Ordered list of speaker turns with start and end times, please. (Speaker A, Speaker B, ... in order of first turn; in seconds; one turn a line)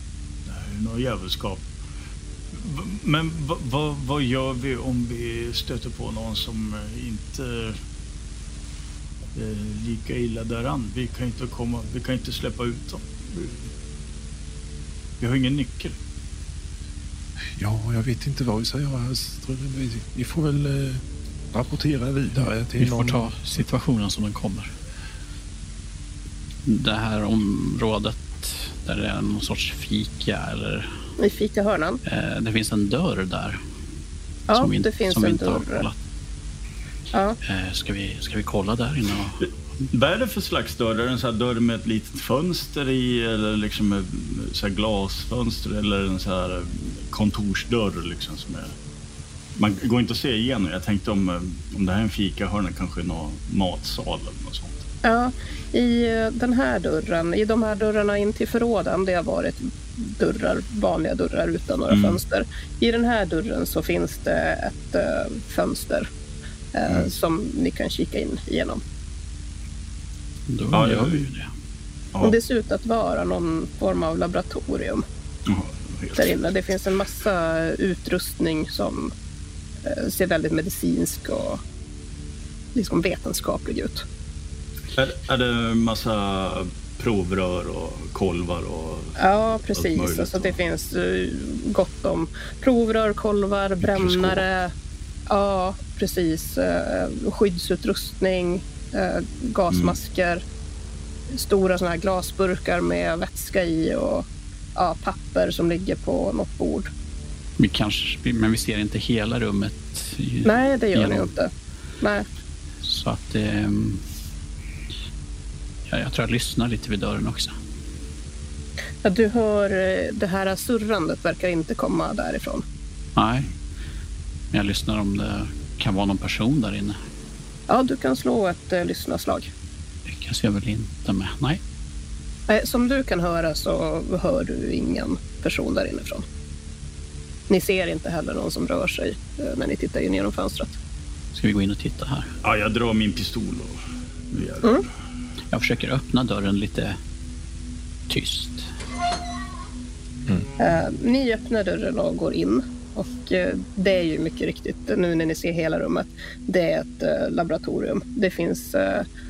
Speaker A: 0.5-1.7
Speaker A: 2.5-7.8
Speaker A: 9.3-13.7
Speaker A: 15.2-16.0
Speaker B: 17.6-21.0
Speaker B: 21.5-23.3
Speaker C: 22.8-24.7
Speaker C: 26.7-30.9
Speaker D: 31.2-32.0
Speaker C: 32.0-33.6
Speaker D: 34.5-35.9
Speaker C: 34.5-36.0
Speaker D: 37.1-37.4
Speaker C: 37.4-39.5
Speaker A: 39.9-48.7
Speaker A: 49.6-54.9
Speaker D: 55.0-66.1
Speaker A: 61.9-62.2
Speaker D: 66.7-68.8
Speaker C: 70.5-71.5
Speaker A: 70.7-71.3
Speaker D: 72.2-75.0
Speaker A: 75.5-76.4
Speaker D: 76.2-79.1
Speaker D: 79.8-81.6
Speaker D: 82.8-84.0
Speaker A: 85.0-90.6
Speaker D: 89.2-94.7
Speaker A: 93.9-94.4
Speaker D: 95.3-100.4
Speaker A: 99.7-100.0
Speaker D: 101.3-106.9
Speaker C: 107.6-111.3
Speaker D: 110.4-112.3
Speaker C: 112.8-114.0
Speaker C: 115.9-117.5
Speaker D: 119.0-122.6
Speaker C: 123.2-123.5
Speaker C: 124.5-127.0
Speaker D: 127.7-129.5
Speaker C: 130.1-131.6
Speaker D: 132.5-136.2
Speaker D: 137.5-140.8
Speaker C: 141.3-142.3
Speaker A: 142.4-143.8
Speaker A: 144.3-144.7
Speaker C: 145.5-147.0
Speaker C: 148.1-148.7
Speaker D: 150.6-159.1